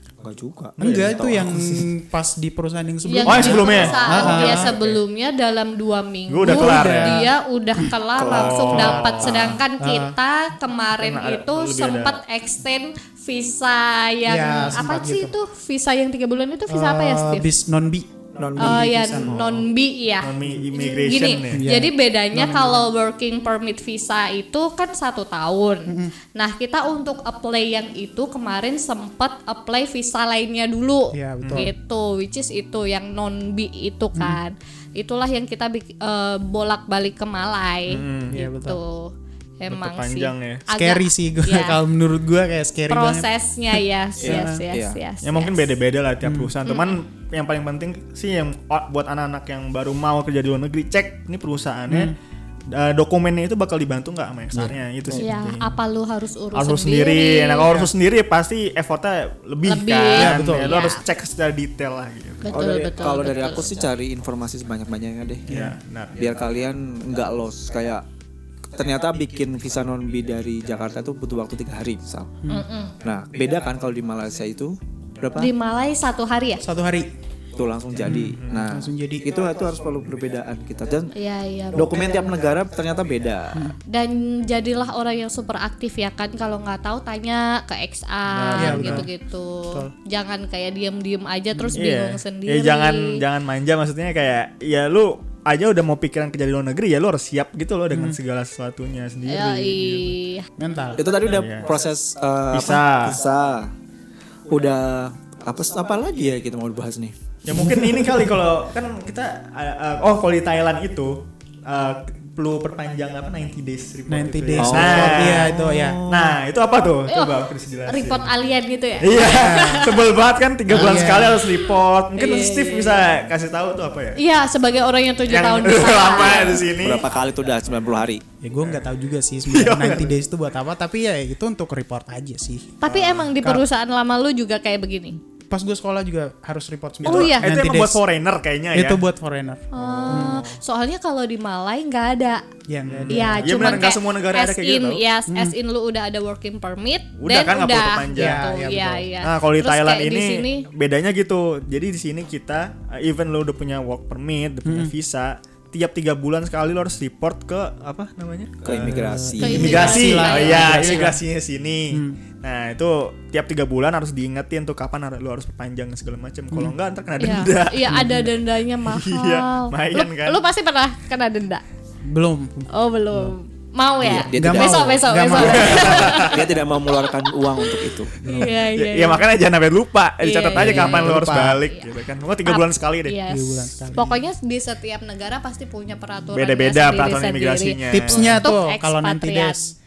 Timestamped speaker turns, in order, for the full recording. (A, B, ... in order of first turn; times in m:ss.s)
0:00.2-0:01.9 A
0:00.8-0:01.2 B
0:00.8-0:04.8 C
0:03.0-0:17.5 D
0:03.2-0:05.0 B
0:06.3-0:07.3 B
0:06.4-0:07.9 C
0:08.2-0:09.5 A
0:08.3-0:09.6 B
0:08.7-0:10.2 C
0:11.0-0:12.2 B
0:14.3-0:15.3 C
0:16.7-0:19.4 C
0:18.4-0:19.4 A
0:18.6-0:41.8 D
0:20.2-0:21.6 B
0:21.5-0:22.9 C
0:25.9-0:26.1 C
0:31.1-0:31.7 C
0:31.4-0:31.7 B
0:37.9-0:38.4 B
0:38.3-0:38.8 C
0:39.7-0:40.6 B
0:40.7-0:43.3 C
0:42.9-0:45.8 D
0:44.2-0:45.0 A
0:44.2-0:44.6 C
0:45.2-0:52.2 B
0:46.2-0:46.5 C
0:46.7-0:47.0 D
0:51.9-0:52.2 C
0:52.7-0:55.8 B
0:55.2-0:57.7 D
0:56.5-1:02.5 B
0:57.6-0:57.9 C
0:59.7-1:01.0 D
1:00.2-1:00.7 C
1:02.4-1:03.7 D
1:02.5-1:05.5 A
1:05.5-1:05.8 C
1:05.5-1:06.3 B
1:06.2-1:08.0 A
1:08.7-1:12.3 A
1:12.5-1:13.0 D
1:13.0-1:15.5 A
1:15.4-1:16.6 D
1:16.6-1:17.1 C
1:17.5-1:21.1 A
1:18.0-1:19.3 C
1:18.2-1:18.6 B
1:21.1-1:22.2 D
1:21.7-1:23.7 A
1:23.9-1:33.2 D
1:28.3-1:29.1 B
1:28.6-1:29.1 C
1:31.7-1:40.2 B
1:37.9-1:38.2 C
1:39.3-1:40.5 D
1:40.6-1:41.0 C
1:41.0-1:43.7 A
1:41.3-1:41.7 B
1:42.5-1:43.2 B
1:44.5-1:47.2 A
1:47.4-1:58.3 B
1:47.5-1:48.3 C
1:54.1-1:56.0 C
1:54.6-1:56.4 A
1:57.1-2:00.1 D
1:59.0-2:04.2 B
1:59.2-1:59.8 C
2:00.7-2:01.5 C
2:02.2-2:03.0 D
2:04.2-2:06.7 D
2:05.3-2:07.1 B
2:06.4-2:08.2 A
2:08.4-2:12.8 C
2:08.6-2:08.9 B
2:09.5-2:10.2 B
2:12.8-2:15.2 D
2:12.8-2:13.3 B
2:15.5-2:18.0 C
2:17.0-2:19.0 B
2:17.0-2:17.5 D
2:18.7-2:20.4 C
2:19.7-2:22.4 D
2:19.8-2:20.6 B
2:22.7-2:23.6 C
2:22.8-2:25.0 B
2:23.1-2:30.7 D
2:25.3-2:25.6 C
2:27.2-2:28.5 B
2:28.1-2:29.1 C
2:29.2-2:39.0 B
2:34.6-2:34.9 C
2:38.6-2:40.0 A
2:38.7-2:41.2 C
2:39.4-2:41.0 D
2:39.5-2:48.0 B
2:41.9-2:42.2 C
2:47.2-2:51.6 D
2:47.9-2:48.3 C
2:48.9-2:50.4 B
2:52.1-2:53.4 C
2:52.7-2:59.3 D
2:54.0-2:58.1 A
2:54.3-2:55.6 C
2:55.1-2:56.5 B
2:58.2-2:58.6 C
2:58.8-3:03.2 B
3:00.2-3:09.6 D
3:00.6-3:01.6 C
3:03.3-3:04.2 C
3:06.3-3:08.5 B
3:07.9-3:09.8 C